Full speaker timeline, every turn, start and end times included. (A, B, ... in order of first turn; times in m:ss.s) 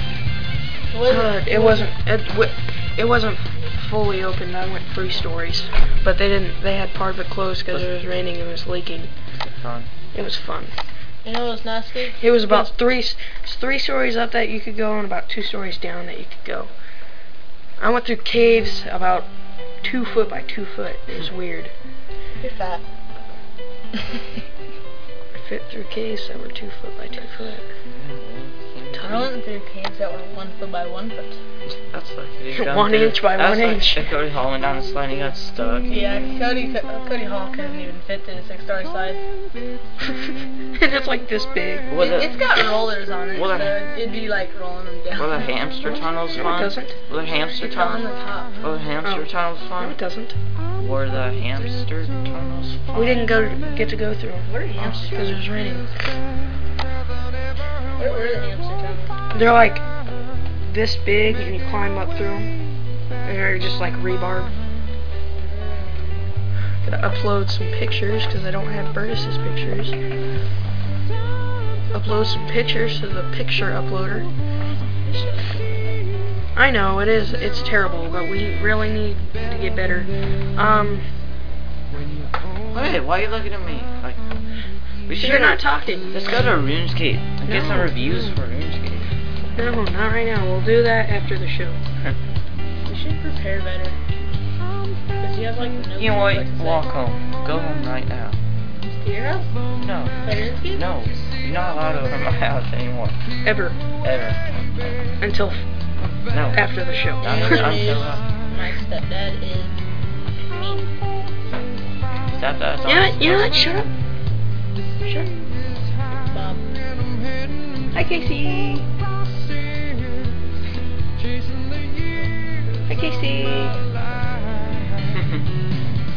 0:00.9-0:01.9 A
0:01.1-0:09.1 B
0:09.4-0:09.9 C
0:10.1-0:10.7 B
0:11.2-0:12.7 A
0:12.2-0:16.7 B
0:17.8-0:19.3 B
0:19.8-0:21.7 B
0:22.4-0:22.8 A
0:25.4-0:27.6 B
0:27.9-0:29.3 C
0:29.0-0:31.4 A
0:31.7-0:36.0 C
0:32.5-0:34.0 B
0:35.9-0:39.2 A
0:40.8-0:41.9 B
0:41.9-0:42.3 C
0:42.0-0:45.4 A
0:43.3-0:43.8 C
0:45.2-0:48.0 C
0:46.4-0:47.0 B
0:47.5-0:48.6 A
0:48.6-0:50.0 C
0:49.8-0:50.4 B
0:50.8-0:53.3 C
0:53.0-0:56.0 B
0:54.4-0:55.4 A
0:58.0-0:59.1 A
0:59.3-0:59.8 B
1:00.6-1:02.5 B
1:03.2-1:04.5 B
1:05.3-1:06.1 A
1:06.8-1:10.0 B
1:11.9-1:14.3 B
1:15.0-1:16.0 A
1:16.6-1:21.0 B
1:22.7-1:24.4 C
1:25.1-1:29.1 C
1:25.2-1:26.1 B
1:27.5-1:28.4 B
1:29.6-1:31.8 B
1:32.9-1:34.0 A
1:35.2-1:36.9 A
1:36.0-1:38.4 C
1:38.9-1:39.6 A
1:39.8-1:40.2 C
1:40.2-1:40.8 A
1:40.7-1:43.2 C
1:43.4-1:43.8 B
1:44.0-1:44.4 C
1:45.2-1:45.6 B
1:46.3-1:46.6 C
1:46.5-1:47.7 B
1:47.2-1:48.3 C
1:47.2-1:49.8 A
1:50.5-1:50.9 A
1:52.3-1:53.8 C
1:52.9-1:53.9 B
1:55.0-1:55.3 B
1:56.3-1:56.6 A
1:57.9-1:58.9 B
2:02.9-2:03.8 B
2:05.1-2:05.5 C